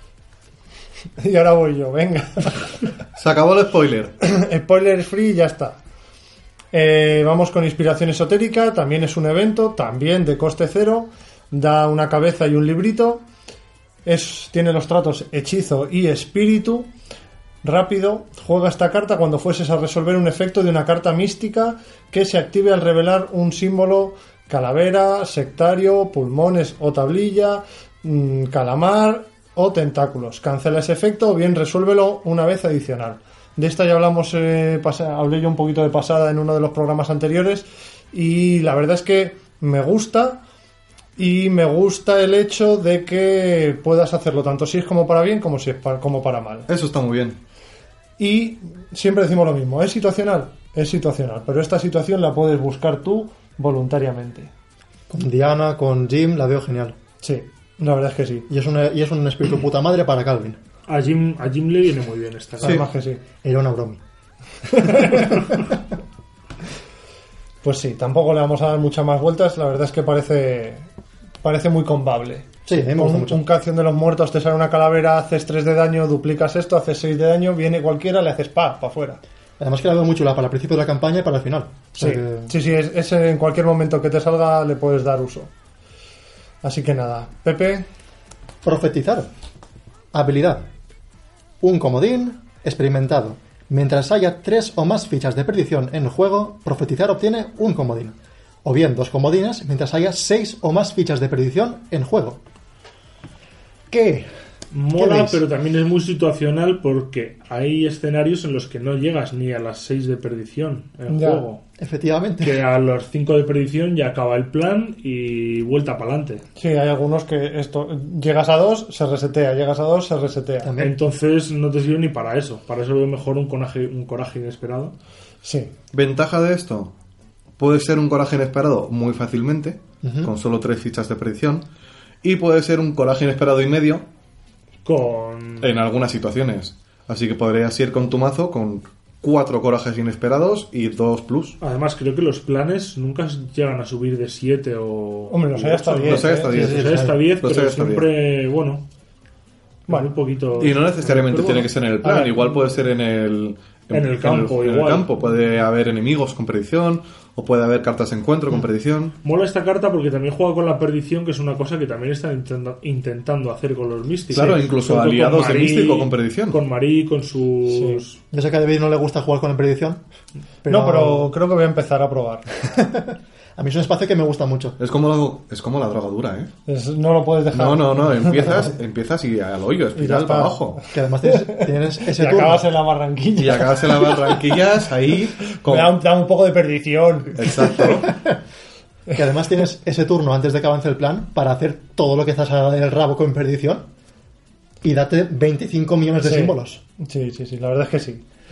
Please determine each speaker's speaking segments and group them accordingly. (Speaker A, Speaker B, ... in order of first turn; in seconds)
Speaker A: 1.2-2.7, 4.2-5.8, 6.7-13.2, 14.0-16.9, 17.6-40.4, 41.2-46.7, 48.2-54.5, 57.2-58.5, 62.6-63.2, 64.7-65.5, 67.6-70.9, 71.4-79.2, 82.0-85.5, 86.6-87.8, 111.1-111.4, 116.6-120.7, 125.4-125.7, 145.3-146.8, 152.0-152.6, 167.7-168.0, 170.7-172.5, 176.7-178.7, 179.9-184.5, 185.6-188.0, 196.2-198.2
Speaker B: 3.1-4.1, 46.7-47.4, 125.9-126.9, 127.6-131.6, 132.2-134.0, 135.6-141.6, 145.8-148.1, 150.6-159.1, 164.3-166.6, 174.8-176.5, 177.5-180.8, 183.3-186.0, 187.3-188.1
Speaker C: 55.1-57.0, 58.5-60.6, 63.4-64.0, 64.8-65.7, 72.7-73.4, 79.6-82.5, 88.6-89.3, 90.1-90.7, 91.6-102.4, 103.9-104.3, 104.9-105.4, 111.8-112.6, 120.6-121.0, 130.0-130.3, 146.5-147.2, 168.3-170.0, 170.6-171.3, 172.7-174.8, 180.9-182.7, 188.0-188.4, 189.1-193.9, 194.8-196.8
Speaker D: 60.9-62.8, 104.7-111.6, 112.4-116.4, 120.8-124.9, 134.8-135.7, 141.6-148.8, 149.9-151.7, 153.9-155.1, 159.2-168.2